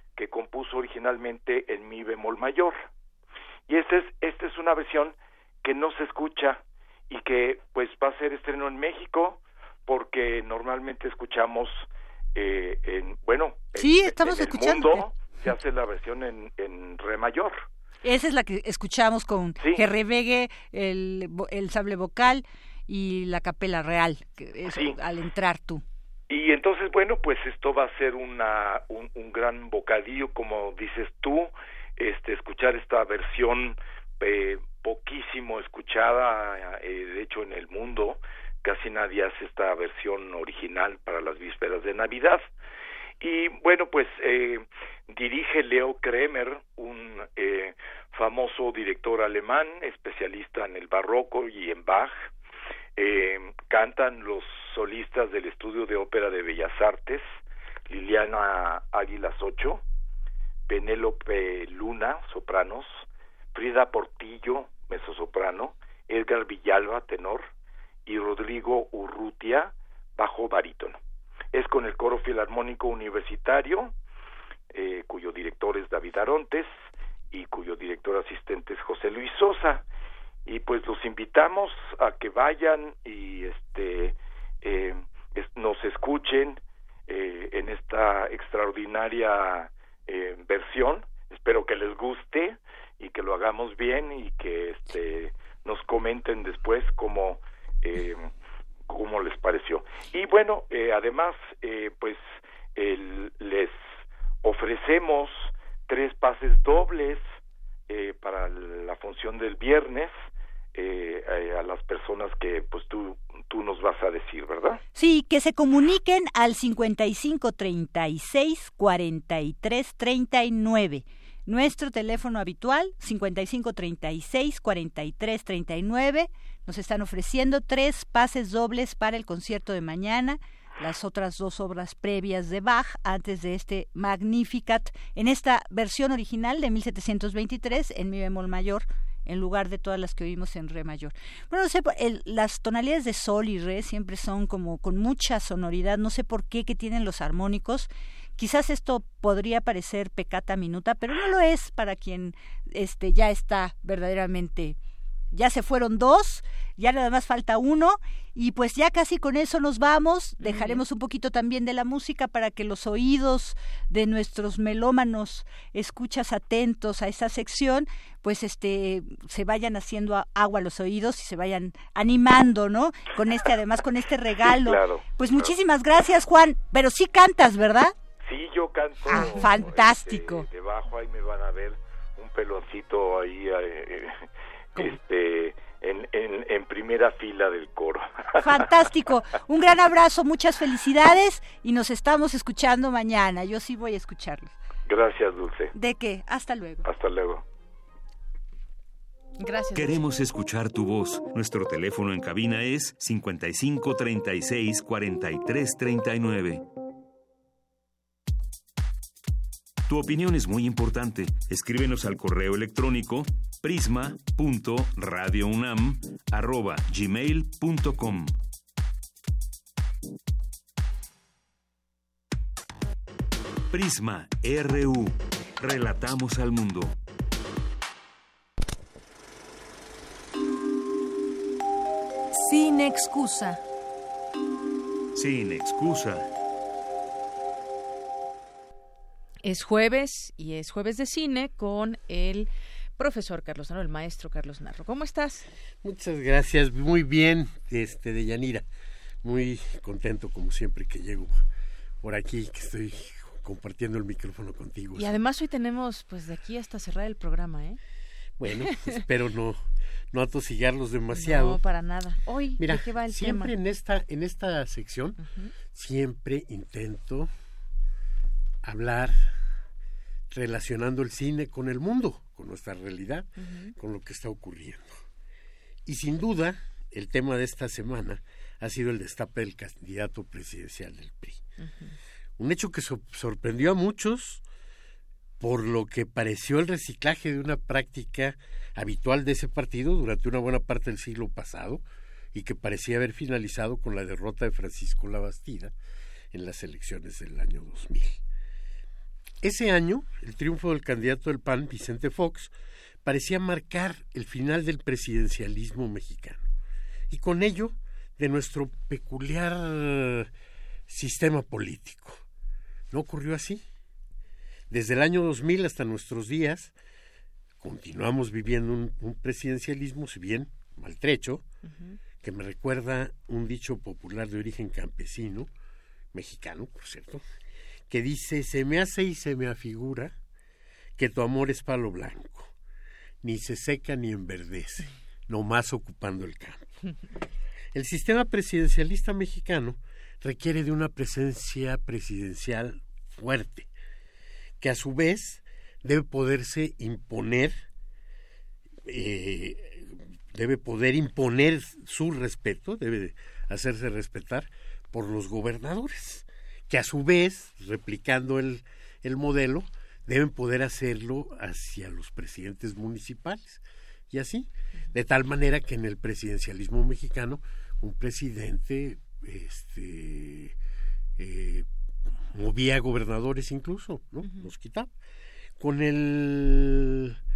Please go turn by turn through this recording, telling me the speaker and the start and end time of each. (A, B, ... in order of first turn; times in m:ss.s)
0:00.2-0:02.8 A
0:03.7-0:17.6 A
0:13.8-0:15.1 B
0:18.0-0:25.8 B
0:19.6-0:19.8 A
0:24.6-0:25.0 A
0:26.3-0:42.5 A
0:43.2-0:52.3 A
0:53.0-0:57.4 A
0:57.9-0:59.8 A
1:00.7-1:07.5 A
1:08.0-1:11.0 A
1:11.5-1:13.9 A
1:14.7-1:19.8 A
1:20.4-1:38.3 A
1:38.9-1:47.2 A
1:47.9-1:50.2 A
1:50.7-1:54.8 A
1:54.9-2:34.8 B
2:35.3-2:57.9 B
2:40.4-2:40.8 C
2:54.4-2:55.5 A
2:58.2-3:04.2 A
2:59.1-3:00.5 B
3:04.7-3:08.1 A
3:08.4-3:14.5 B
3:14.8-3:15.7 A
3:15.7-3:16.8 B
3:16.8-3:17.4 A
3:19.4-3:20.0 C
3:19.7-3:26.6 D
3:29.9-3:38.3 D
3:43.7-3:47.0 D
3:52.4-3:53.5 C
3:55.1-3:56.3 D
3:59.4-4:05.5 C
4:05.8-4:08.6 E
4:09.2-4:11.4 E
4:12.0-4:15.1 E
4:15.0-4:17.8 C
4:18.4-4:21.6 E
4:21.1-4:23.5 C
4:22.6-4:25.2 E
4:25.2-4:25.5 C
4:25.7-4:27.3 E
4:28.6-4:29.3 E
4:30.3-4:35.0 E
4:33.4-4:33.7 C
4:35.8-4:41.4 E
4:41.6-4:41.9 C
4:42.4-4:44.4 E
4:45.4-4:51.8 E
4:52.3-4:55.7 E
4:56.3-4:58.2 E
4:59.4-5:02.5 E
5:03.0-5:06.4 E
5:07.1-5:10.3 E
5:10.9-5:12.2 E
5:12.9-5:13.6 E
5:14.7-5:16.7 E
5:17.6-5:21.4 E
5:21.6-5:22.0 C
5:22.2-5:25.5 E
5:26.1-5:27.2 E
5:27.9-5:30.1 E
5:31.0-5:32.5 E
5:33.2-5:36.7 E
5:37.7-5:43.7 E
5:44.6-5:47.6 E
5:48.9-6:10.5 E
6:11.2-6:11.6 E
6:12.3-6:14.9 E
6:14.2-6:14.5 C
6:15.6-6:17.2 E